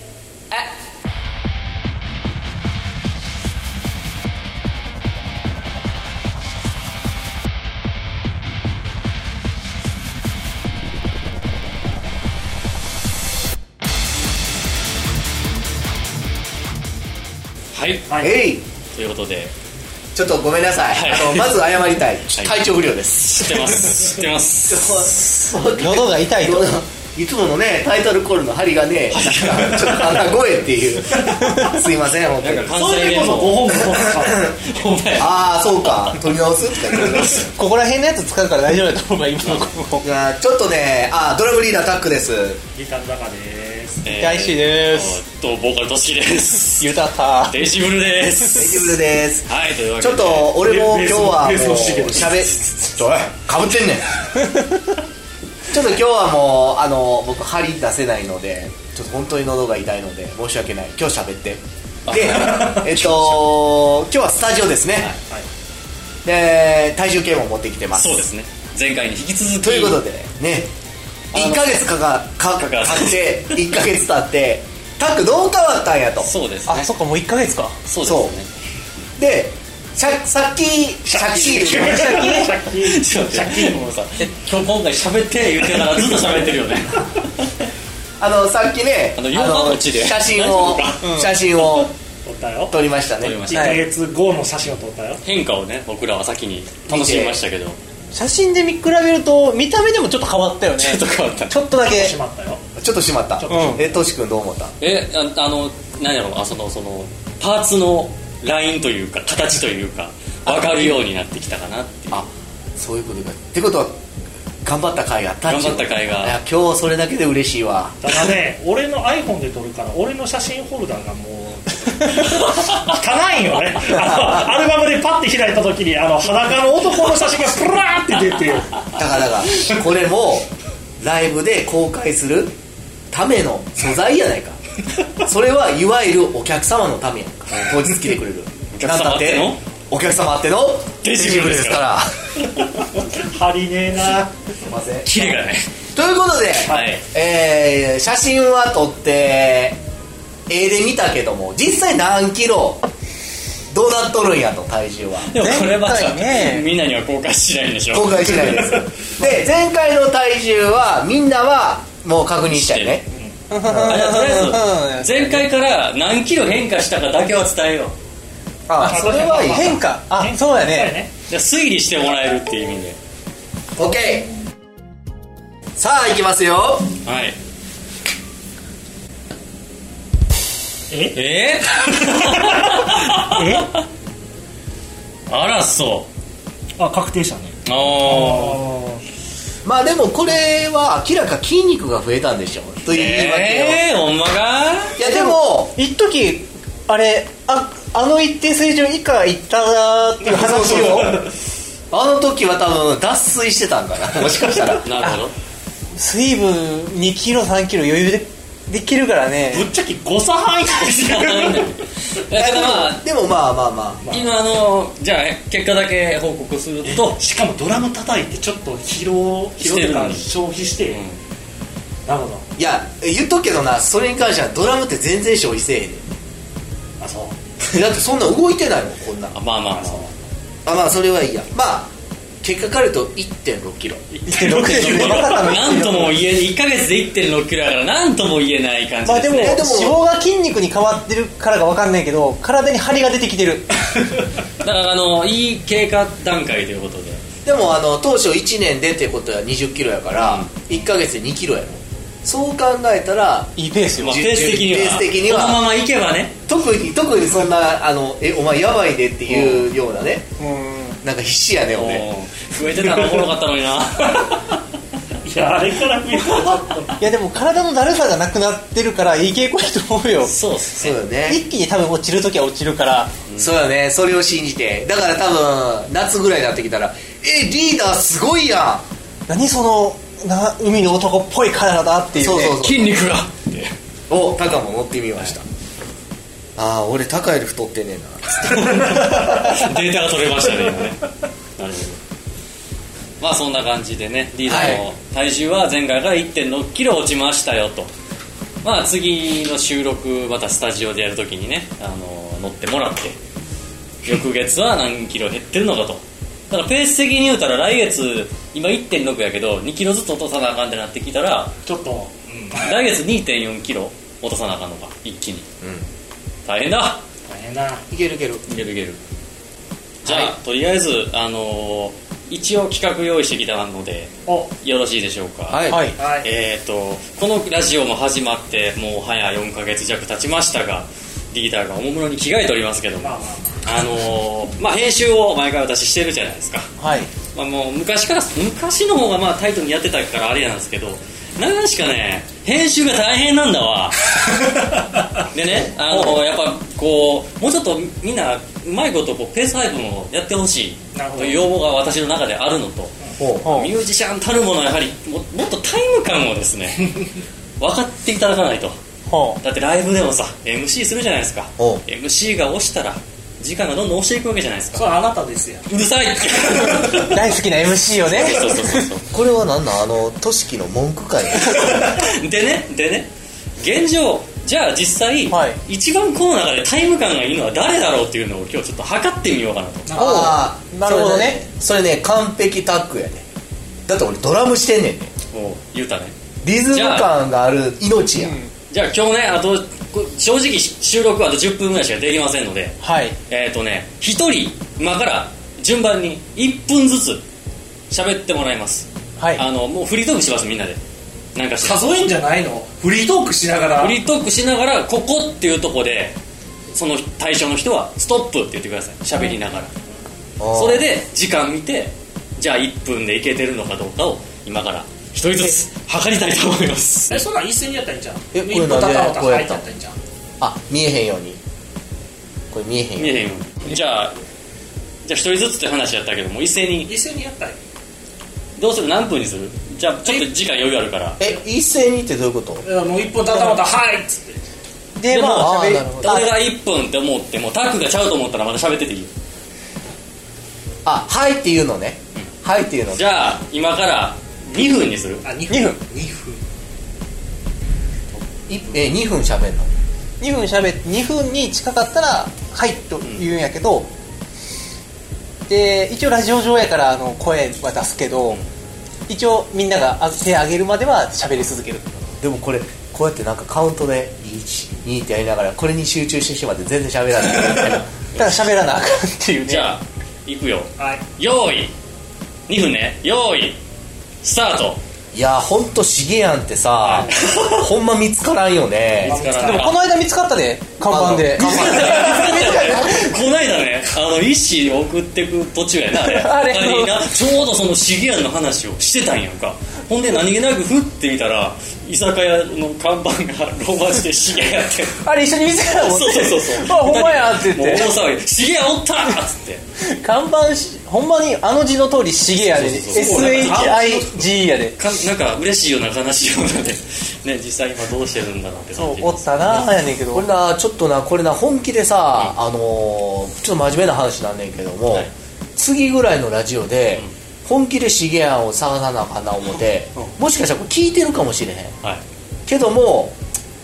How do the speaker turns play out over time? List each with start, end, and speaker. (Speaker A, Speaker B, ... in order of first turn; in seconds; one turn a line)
Speaker A: 17.7-18.1
Speaker B: 18.1-18.4
Speaker C: 18.2-18.6
Speaker A: 18.9-19.5
Speaker C: 20.1-24.0
Speaker A: 20.9-21.6
Speaker A: 22.4-22.7
Speaker A: 23.2-25.1
Speaker C: 24.7-32.8
Speaker D: 25.6-26.7
Speaker A: 29.1-30.3
Speaker A: 32.4-36.3
Speaker B: 32.7-34.5
Speaker C: 34.2-34.5
Speaker C: 35.2-37.5
Speaker A: 36.8-37.5
Speaker D: 37.5-40.1
Speaker A: 39.4-39.7
Speaker C: 40.0-42.6
Speaker B: 42.7-44.2
Speaker A: 44.0-50.6
Speaker D: 44.2-45.2
Speaker D: 46.8-47.6
Speaker C: 48.5-54.3
Speaker B: 50.6-52.7
Speaker C: 55.7-65.1
Speaker A: 62.1-63.5
Speaker C: 66.2-68.2
Speaker A: 67.9-70.0
Speaker C: 69.6-70.7
Speaker A: 71.3-71.9
Speaker C: 71.3-76.3
Speaker A: 72.5-73.7
Speaker A: 76.2-76.9
Speaker D: 76.7-77.8
Speaker A: 77.8-78.5
Speaker C: 78.0-78.4
Speaker C: 79.2-82.1
Speaker B: 81.0-83.8
Speaker D: 81.8-82.5
Speaker A: 82.1-87.7
Speaker C: 88.2-91.9
Speaker A: 89.2-91.8
Speaker D: 91.0-91.3
Speaker B: 92.2-92.8
Speaker C: 92.7-93.4
Speaker A: 93.2-93.8
Speaker B: 93.5-95.2
Speaker D: 93.5-93.8
Speaker A: 95.2-97.8
Speaker C: 96.9-97.4
Speaker D: 98.1-102.1
Speaker A: 100.8-101.5
Speaker B: 101.8-102.6
Speaker C: 102.8-104.8
Speaker B: 103.4-104.0
Speaker D: 103.5-103.8
Speaker A: 104.8-112.3
Speaker C: 110.5-111.0
Speaker C: 112.1-114.0
Speaker C: 114.6-118.0
Speaker A: 115.5-116.4
Speaker B: 118.0-128.9
Speaker C: 124.0-124.4
Speaker C: 128.9-130.5
Speaker C: 131.0-132.6
Speaker C: 133.1-134.6
Speaker C: 135.2-142.1
Speaker A: 138.7-139.6
Speaker A: 141.0-141.9
Speaker B: 142.8-144.5
Speaker C: 144.7-145.3
Speaker A: 145.1-145.7
Speaker C: 145.9-149.8
Speaker B: 146.6-147.0
Speaker A: 146.7-147.0
Speaker C: 150.5-152.8
Speaker C: 153.7-155.3
Speaker A: 155.2-158.9
Speaker D: 155.3-156.7
Speaker C: 157.9-163.1
Speaker A: 162.5-163.0
Speaker D: 163.5-165.5
Speaker A: 163.7-167.9
Speaker D: 168.7-171.0
Speaker C: 168.7-169.8
Speaker B: 168.8-171.1
Speaker A: 171.3-173.0
Speaker C: 173.8-174.3
Speaker C: 175.8-176.9
Speaker A: 177.0-177.4
Speaker B: 180.9-181.2
Speaker A: 181.1-183.8
Speaker B: 182.0-183.7
Speaker A: 185.3-186.1
Speaker B: 186.8-189.0
Speaker A: 187.7-188.6
Speaker C: 189.7-193.8
Speaker A: 192.9-195.0
Speaker C: 195.0-195.8
Speaker D: 195.0-201.2
Speaker C: 200.3-201.2
Speaker C: 201.9-204.9
Speaker A: 204.8-205.3
Speaker D: 206.0-209.7
Speaker B: 209.5-211.8
Speaker A: 210.8-213.0
Speaker C: 212.3-214.0
Speaker B: 214.0-214.3
Speaker A: 214.1-217.2
Speaker B: 216.9-221.0
Speaker A: 219.6-220.3
Speaker A: 220.9-221.2
Speaker B: 222.1-222.5
Speaker C: 222.6-226.1
Speaker B: 227.0-227.3
Speaker C: 227.6-229.4
Speaker A: 229.3-230.1
Speaker B: 229.8-230.1
Speaker C: 230.7-231.9
Speaker C: 232.4-234.1
Speaker A: 234.1-239.7
Speaker D: 234.3-236.2
Speaker B: 234.5-235.4
Speaker D: 239.1-243.7
Speaker C: 239.4-240.0
Speaker A: 244.6-247.2
Speaker C: 247.4-255.7
Speaker A: 250.2-250.5
Speaker D: 253.6-254.2
Speaker A: 254.0-256.4
Speaker C: 256.5-260.3
Speaker A: 259.3-259.7
Speaker D: 260.4-261.0
Speaker C: 261.0-262.1
Speaker A: 261.7-264.5
Speaker B: 262.8-263.3
Speaker B: 265.2-267.0
Speaker D: 267.0-270.4
Speaker A: 270.2-271.0
Speaker C: 270.8-271.4
Speaker D: 271.3-273.1
Speaker A: 273.3-273.5
Speaker C: 273.4-278.9
Speaker D: 279.3-282.6
Speaker C: 282.2-283.0
Speaker A: 282.6-283.7
Speaker C: 284.1-285.4
Speaker C: 286.6-289.6
Speaker A: 288.5-291.0
Speaker A: 291.6-292.0
Speaker A: 293.2-297.9
Speaker D: 294.5-294.8
Speaker C: 294.5-294.8
Speaker A: 298.6-303.2
Speaker A: 304.0-311.5
Speaker B: 311.7-312.7
Speaker A: 312.5-315.5
Speaker C: 315.6-315.9
Speaker A: 316.4-317.0
Speaker B: 317.3-317.9
Speaker C: 317.9-318.4
Speaker A: 318.5-319.0
Speaker A: 320.0-333.1
Speaker C: 320.1-320.3
Speaker B: 324.3-324.5
Speaker C: 325.5-325.9
Speaker D: 325.7-326.0
Speaker B: 326.0-326.3
Speaker B: 333.0-333.8
Speaker A: 333.6-336.7
Speaker D: 336.8-337.1
Speaker A: 337.3-344.3
Speaker A: 345.3-358.8
Speaker D: 345.9-346.2
Speaker B: 350.9-351.5
Speaker C: 353.2-353.4
Speaker D: 353.4-353.7
Speaker D: 359.1-359.4
Speaker A: 359.4-364.9
Speaker C: 361.6-361.8
Speaker B: 364.7-365.7
Speaker A: 365.7-367.2
Speaker D: 367.1-368.9
Speaker A: 368.1-369.1
Speaker C: 369.1-372.0
Speaker A: 371.5-379.9
Speaker D: 375.3-375.6
Speaker B: 379.9-380.3
Speaker D: 380.0-381.4
Speaker C: 380.0-383.2
Speaker C: 383.9-385.1
Speaker A: 385.3-386.1
Speaker C: 386.4-388.4
Speaker A: 386.7-387.1
Speaker D: 388.2-388.5
Speaker A: 388.7-397.2
Speaker D: 392.8-393.2
Speaker A: 397.9-400.8
Speaker D: 399.2-399.4
Speaker A: 401.4-401.8
Speaker B: 401.6-404.0
Speaker A: 403.8-406.2
Speaker A: 406.7-409.7
Speaker C: 410.4-410.9
Speaker A: 410.5-417.2
Speaker B: 417.1-420.0
Speaker C: 418.3-419.7
Speaker C: 420.4-421.4
Speaker C: 422.5-423.3
Speaker A: 423.0-424.2
Speaker A: 425.1-426.9
Speaker B: 426.8-427.6
Speaker A: 428.6-431.4
Speaker C: 431.2-432.6
Speaker B: 432.6-434.4
Speaker D: 435.0-436.1
Speaker A: 435.1-439.1
Speaker C: 435.3-436.3
Speaker C: 440.9-443.0
Speaker A: 442.9-445.2
Speaker B: 445.2-446.4
Speaker D: 445.5-445.8
Speaker C: 448.5-449.7
Speaker D: 450.2-453.9
Speaker A: 453.0-453.3
Speaker D: 455.5-458.4
Speaker D: 459.1-461.9
Speaker C: 462.2-467.8
Speaker A: 468.1-468.5
Speaker D: 468.2-469.8
Speaker A: 469.4-471.7
Speaker B: 470.8-471.1
Speaker A: 472.5-473.6
Speaker A: 474.2-474.8
Speaker C: 475.1-479.2
Speaker A: 476.8-477.7
Speaker B: 478.9-479.7
Speaker A: 479.0-479.8
Speaker D: 479.4-483.1
Speaker C: 480.9-482.7
Speaker A: 481.0-495.1
Speaker D: 485.9-487.2
Speaker D: 495.0-498.0
Speaker A: 495.7-499.6
Speaker D: 499.8-504.8
Speaker A: 502.5-503.9
Speaker B: 502.9-504.1
Speaker A: 504.8-509.9
Speaker D: 508.8-510.3
Speaker C: 510.1-521.8
Speaker C: 522.5-523.2